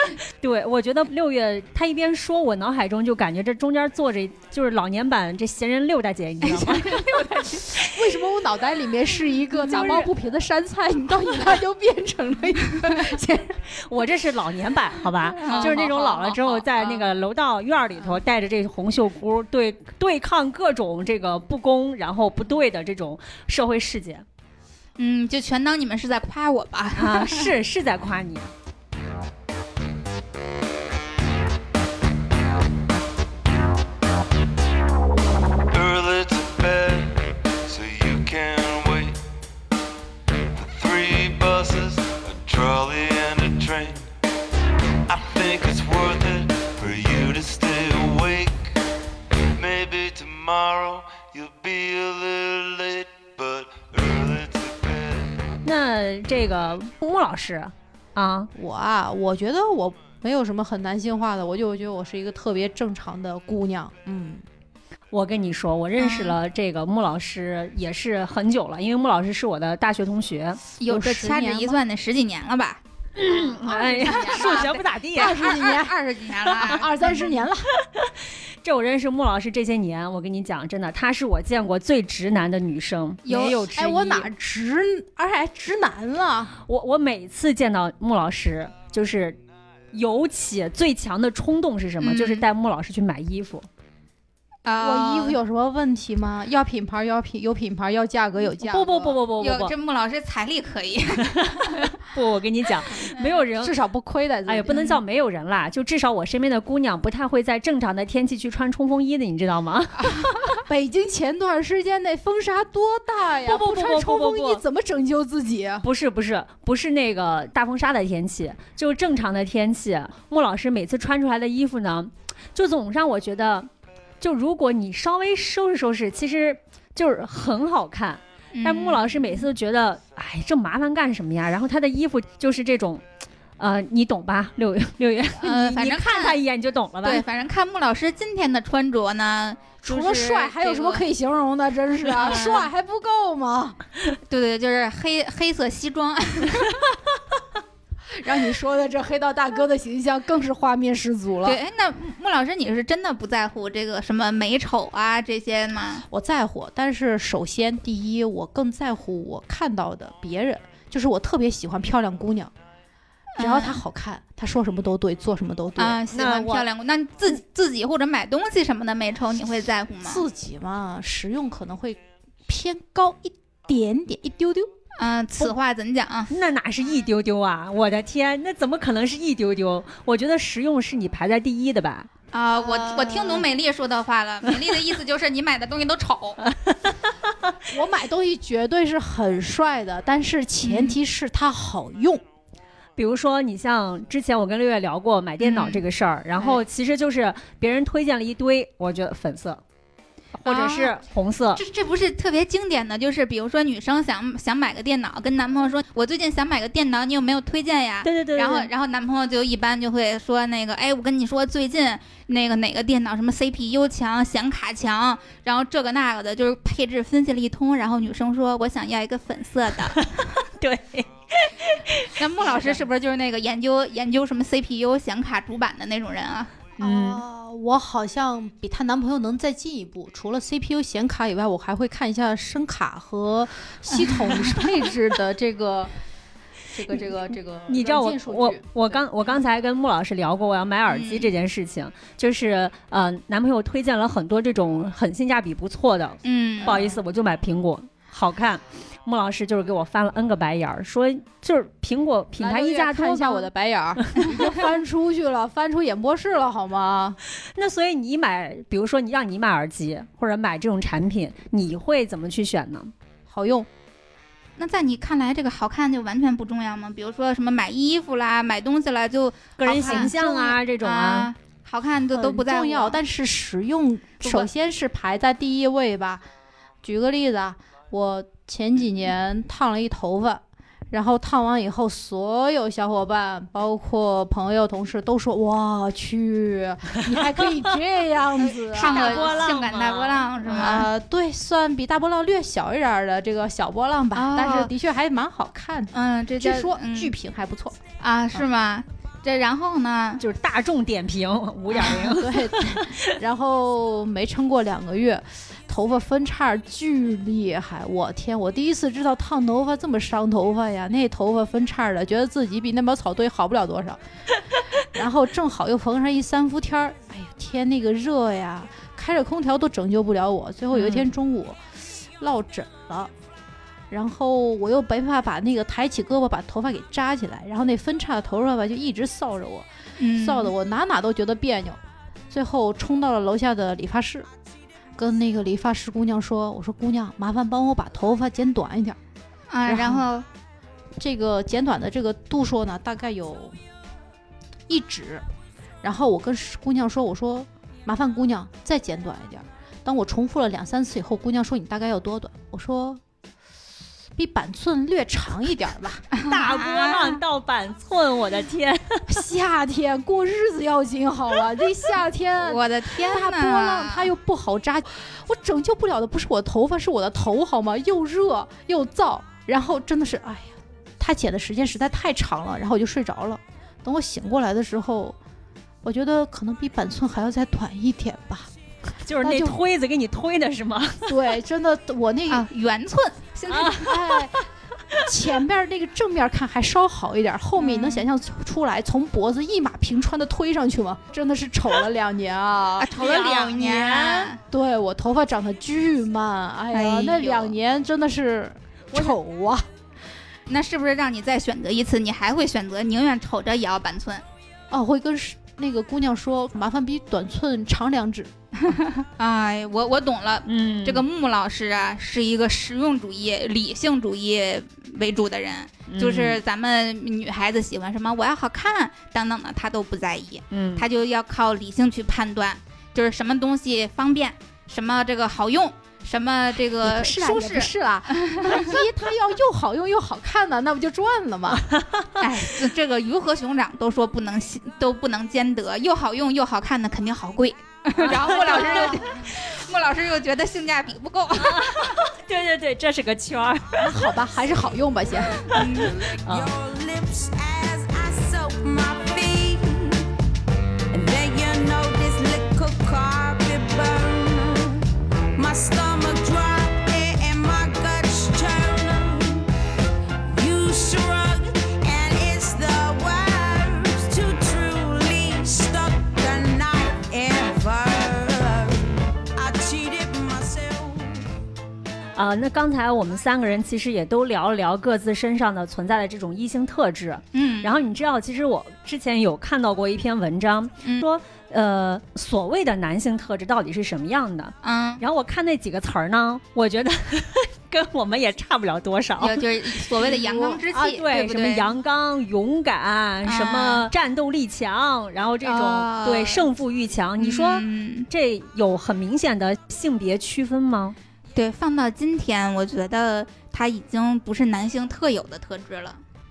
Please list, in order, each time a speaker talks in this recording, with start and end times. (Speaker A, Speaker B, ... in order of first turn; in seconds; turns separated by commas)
Speaker A: 0.4-7.0, Speaker B: 6.5-7.6, Speaker C: 7.7-13.6, Speaker A: 9.6-10.1, Speaker A: 13.8-24.2, Speaker B: 15.4-17.0, Speaker C: 15.4-15.9, Speaker B: 25.0-27.5, Speaker A: 27.0-28.5, Speaker D: 35.7-39.2, Speaker D: 40.5-44.1, Speaker D: 45.1-48.8, Speaker D: 49.5-55.5, Speaker A: 55.6-58.5, Speaker C: 58.5-64.5, Speaker A: 65.1-70.6, Speaker B: 66.0-66.4, Speaker B: 70.8-72.8, Speaker C: 70.9-71.8, Speaker A: 73.2-75.4, Speaker C: 73.6-77.7, Speaker B: 73.7-77.3, Speaker A: 78.6-84.3, Speaker B: 83.3-83.6, Speaker C: 83.3-86.5, Speaker A: 86.7-89.4, Speaker A: 89.9-93.7, Speaker B: 92.0-92.5, Speaker B: 94.7-95.4, Speaker C: 94.8-99.2, Speaker A: 98.6-99.7, Speaker B: 99.4-101.9, Speaker A: 101.2-103.8, Speaker C: 103.6-104.9, Speaker A: 104.5-110.1, Speaker B: 110.1-110.4, Speaker C: 110.7-115.8, Speaker A: 113.5-114.6, Speaker A: 115.8-123.7, Speaker A: 124.2-133.0, Speaker B: 128.5-129.5, Speaker A: 133.6-137.2, Speaker B: 135.4-136.4, Speaker B: 137.0-141.1, Speaker C: 139.8-143.8, Speaker B: 142.1-142.7, Speaker B: 144.3-146.9, Speaker C: 148.1-151.6, Speaker B: 151.4-156.1, Speaker C: 156.1-162.5, Speaker B: 163.4-163.8, Speaker C: 163.4-166.0, Speaker B: 165.8-170.2, Speaker A: 166.1-166.7, Speaker C: 170.0-174.7, Speaker B: 175.0-176.3, Speaker A: 176.3-182.1, Speaker B: 182.3-186.4, Speaker C: 182.6-183.5, Speaker A: 186.4-187.5, Speaker C: 187.7-192.2, Speaker B: 190.6-191.0, Speaker A: 193.0-199.6, Speaker B: 195.4-195.8, Speaker A: 200.4-201.6, Speaker B: 200.4-201.0, Speaker B: 201.6-220.1, Speaker A: 208.0-208.7, Speaker A: 219.9-222.7, Speaker B: 222.2-226.5, Speaker C: 226.8-235.9, Speaker A: 226.8-227.2, Speaker B: 233.9-234.7, Speaker C: 236.7-239.1, Speaker A: 237.7-253.5, Speaker B: 240.9-241.3, Speaker B: 246.2-246.8, Speaker C: 246.6-246.9, Speaker C: 252.4-257.2, Speaker A: 257.6-262.9, Speaker C: 263.3-263.7, Speaker B: 264.6-273.0, Speaker A: 269.6-271.3, Speaker C: 269.7-270.1, Speaker C: 272.1-276.2, Speaker B: 274.2-274.5, Speaker C: 276.8-289.4, Speaker B: 288.6-290.9, Speaker A: 288.7-290.6, Speaker C: 290.4-297.8, Speaker B: 294.1-294.7, Speaker B: 295.9-297.1, Speaker B: 298.0-300.2, Speaker A: 300.2-303.1, Speaker C: 301.8-314.0, Speaker C: 314.8-323.1, Speaker A: 320.7-321.1, Speaker C: 323.9-334.3, Speaker B: 330.0-330.5, Speaker C: 335.0-339.0, Speaker B: 339.5-340.2, Speaker C: 339.7-340.1, Speaker C: 341.0-343.6, Speaker C: 344.7-345.2, Speaker C: 345.8-353.0, Speaker C: 354.2-356.1, Speaker B: 356.1-357.2, Speaker A: 356.2-359.2, Speaker C: 359.1-375.2, Speaker B: 362.4-364.1, Speaker C: 375.8-378.5, Speaker A: 379.0-381.1, Speaker C: 379.2-379.6, Speaker C: 381.1-382.5, Speaker B: 382.3-384.0, Speaker A: 383.5-384.3, Speaker C: 383.8-384.4, Speaker C: 385.0-393.0, Speaker B: 387.6-388.1, Speaker B: 392.8-394.4, Speaker A: 392.9-394.3, Speaker C: 394.4-399.7, Speaker B: 396.7-397.6, Speaker B: 400.5-404.2, Speaker C: 404.7-408.3, Speaker B: 408.7-428.8, Speaker A: 410.5-411.0, Speaker A: 415.9-416.4, Speaker A: 420.5-420.9, Speaker C: 426.8-431.6, Speaker A: 431.6-432.2, Speaker B: 432.2-442.0, Speaker A: 438.0-439.0, Speaker C: 438.2-439.0, Speaker A: 441.4-443.9, Speaker C: 443.8-445.4, Speaker B: 445.5-446.0, Speaker A: 445.5-446.5, Speaker E: 445.8-450.1, Speaker E: 450.9-459.5, Speaker E: 460.3-471.2, Speaker A: 472.2-501.0, Speaker B: 477.3-477.7, Speaker B: 484.6-485.0, Speaker B: 489.2-491.7, Speaker B: 493.2-493.9, Speaker B: 495.4-496.5, Speaker B: 497.2-498.1, Speaker B: 501.4-506.0